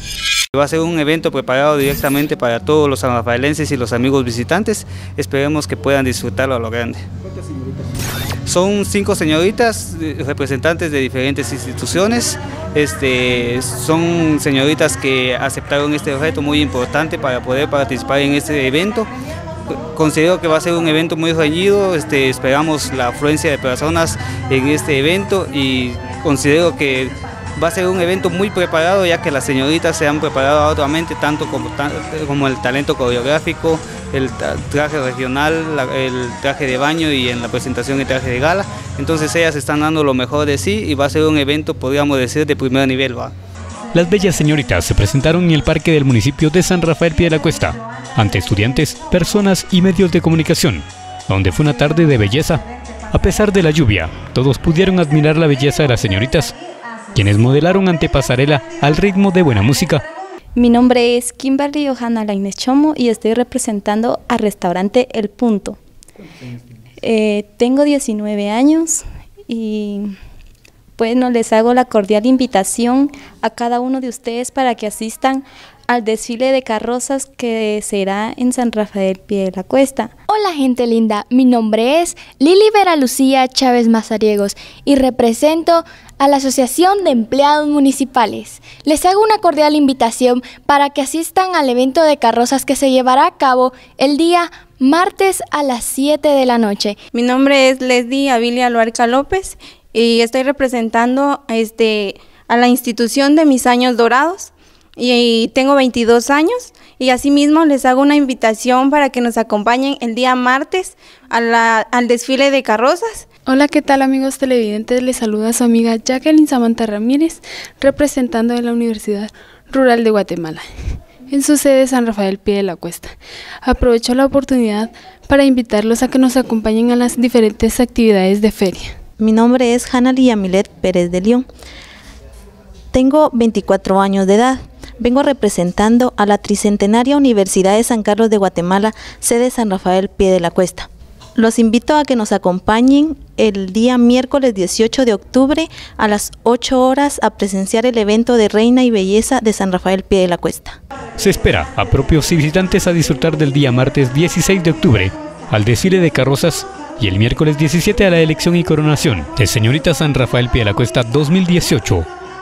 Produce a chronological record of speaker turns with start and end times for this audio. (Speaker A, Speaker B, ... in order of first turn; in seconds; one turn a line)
Speaker A: 0.5-7.0
Speaker A: 8.5-19.1
Speaker A: 19.9-43.3
Speaker B: 43.9-56.5
Speaker B: 57.1-60.0
Speaker C: 60.5-65.8
Speaker C: 67.0-70.2
Speaker C: 71.0-80.1
Speaker D: 80.3-97.0
Speaker E: 97.1-113.3
Speaker F: 113.5-120.7
Speaker F: 121.3-128.9
Speaker G: 129.2-131.5
Speaker G: 132.9-150.8
Speaker B: 151.2-162.1